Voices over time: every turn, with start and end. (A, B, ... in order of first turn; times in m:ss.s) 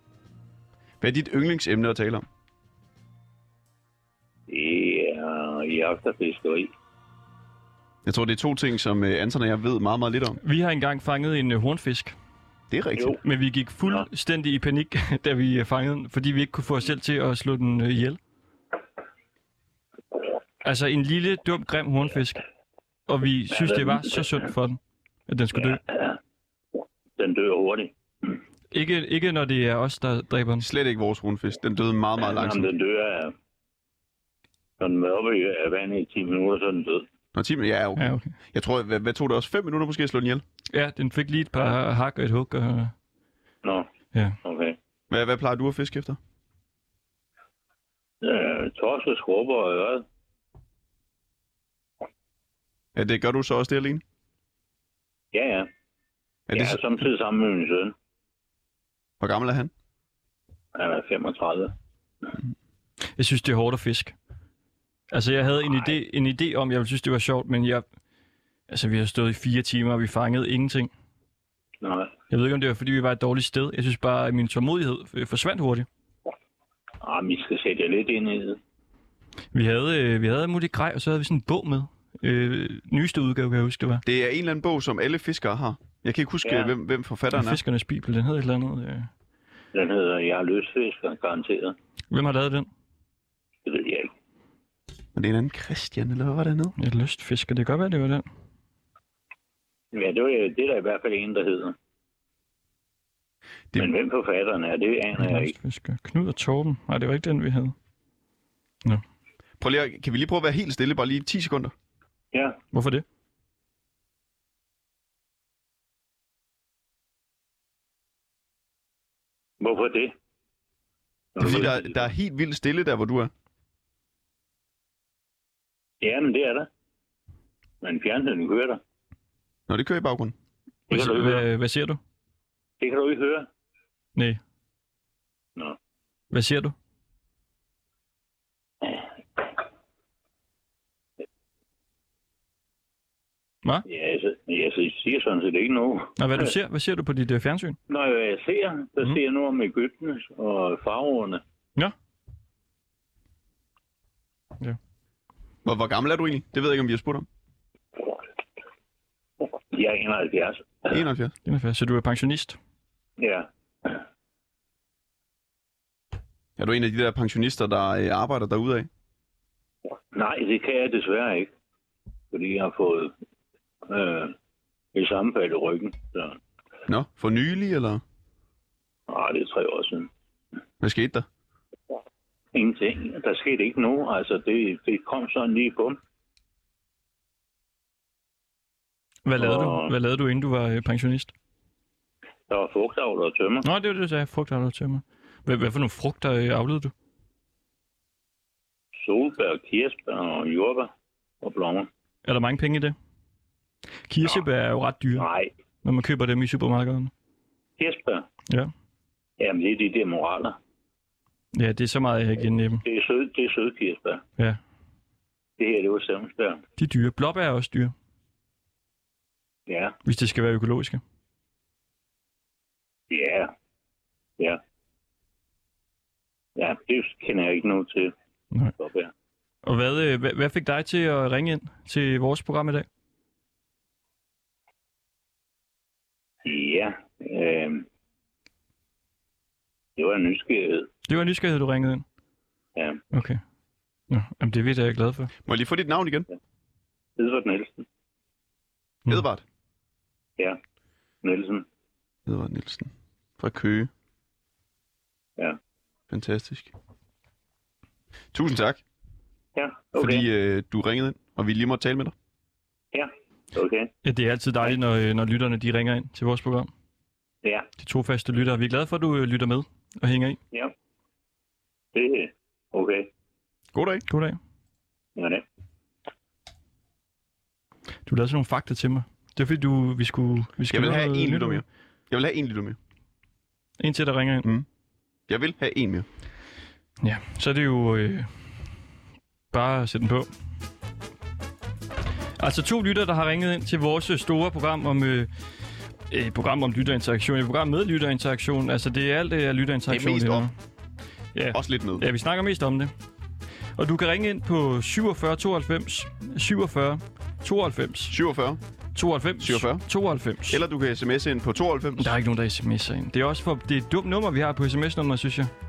0:01.0-0:02.3 A
0:04.5-0:06.7 B
0:08.0-0:10.4 A
0:10.4-0:12.1 C
0:12.7-0:13.2 A
0:13.2-0:18.2 C
0:20.6-0:22.4 C
0:23.1-0:25.8 C
0:23.5-0:24.4 B
0:25.6-0:26.2 B
0:27.2-0:28.4 B
0:28.7-0:30.7 C
0:30.6-0:32.7 A
0:32.2-0:33.3 B
0:34.8-0:37.0 B
0:37.4-0:40.4 A
0:38.0-0:38.3 C
0:40.7-0:42.9 C
0:43.6-0:43.9 B
0:44.1-0:44.4 C
0:44.4-0:44.8 B
0:45.1-0:46.2 A
0:48.2-0:50.0 B
0:53.0-0:54.0 A
0:55.3-0:55.7 B
0:56.5-0:56.9 A
0:56.5-0:58.0 B
0:59.2-0:59.7 A
1:00.8-1:01.8 B
1:03.2-1:04.1 C
1:05.1-1:07.8 C
1:05.7-1:05.9 B
1:08.7-1:10.9 C
1:11.8-1:12.1 B
1:12.3-1:15.9 C
1:17.0-1:18.6 B
1:19.5-1:24.0 C
1:24.0-1:27.6 A
1:26.4-1:26.7 B
1:27.3-1:29.1 C
1:29.7-1:31.8 B
1:32.1-1:32.7 C
1:33.6-1:34.1 B
1:35.1-1:36.7 A
1:36.8-1:38.3 C
1:39.9-1:41.8 B
1:43.8-1:45.5 B
1:45.2-1:47.8 C
1:49.6-1:51.7 A
1:52.3-1:52.6 B
1:52.7-1:53.0 C
1:59.6-2:00.1 B
2:01.4-2:02.0 B
2:01.4-2:03.3 A
2:06.0-2:06.7 B
2:07.8-2:08.8 B
2:09.7-2:10.4 A
2:10.9-2:11.5 B
2:10.9-2:12.0 C
2:12.8-2:13.5 B
2:16.3-2:16.8 C
2:23.9-2:26.5 B
2:26.2-2:27.8 C
2:27.9-2:31.4 B
2:35.6-2:37.3 A
2:39.7-2:41.0 B
2:40.9-2:41.4 A
2:41.5-2:42.6 C
2:43.2-2:44.0 B
2:46.6-2:48.9 A
2:50.1-2:51.5 B
2:52.3-2:53.1 B
2:53.9-2:54.4 B
2:54.9-2:56.4 B
2:56.9-2:58.0 A
2:59.1-3:00.1 B
3:00.8-3:01.3 A
3:02.5-3:06.0 B
3:09.2-3:11.3 C
3:09.4-3:09.9 B
3:12.5-3:13.7 B
3:13.6-3:16.9 C
3:19.0-3:21.9 B
3:22.2-3:23.0 C
3:24.1-3:25.3 C
3:25.2-3:25.5 B
3:25.8-3:27.1 C
3:27.8-3:28.3 B
3:29.4-3:30.6 B
3:31.5-3:32.8 C
3:32.8-3:34.2 B
3:35.6-3:36.6 B
3:36.8-3:37.9 C
3:39.7-3:40.0 B
3:40.0-3:41.0 C
3:43.1-3:43.5 B
3:46.6-3:48.1 B
3:48.8-3:49.1 B
3:49.6-3:52.9 C
3:56.4-3:57.9 B
4:00.0-4:00.9 B
4:01.1-4:02.0 C
4:02.8-4:03.0 B
4:03.1-4:03.4 C
4:04.1-4:05.3 C
4:05.4-4:06.3 A
4:07.2-4:07.9 B
4:09.1-4:09.4 A
4:11.2-4:11.6 B
4:12.3-4:13.9 A
4:16.1-4:16.7 A
4:18.3-4:18.8 A
4:19.6-4:20.3 B
4:20.0-4:22.1 A
4:22.9-4:23.9 B
4:24.0-4:26.7 C
4:27.4-4:27.7 B
4:27.8-4:30.4 C
4:31.9-4:33.1 B
4:33.7-4:34.0 A
4:34.1-4:34.4 C
4:35.2-4:35.4 B
4:38.1-4:41.6 C
4:40.7-4:42.8 A
4:43.8-4:44.5 C
4:45.3-4:46.1 A
4:47.0-4:48.4 C
4:49.5-4:50.3 C
4:52.4-4:55.3 C
4:56.1-5:00.5 C
4:59.9-5:00.5 A
5:01.4-5:02.9 C
5:01.5-5:02.1 A
5:03.8-5:08.2 C
5:08.1-5:08.6 A
5:09.0-5:10.6 C
5:09.4-5:09.8 A
5:10.5-5:12.2 A
5:12.0-5:15.5 C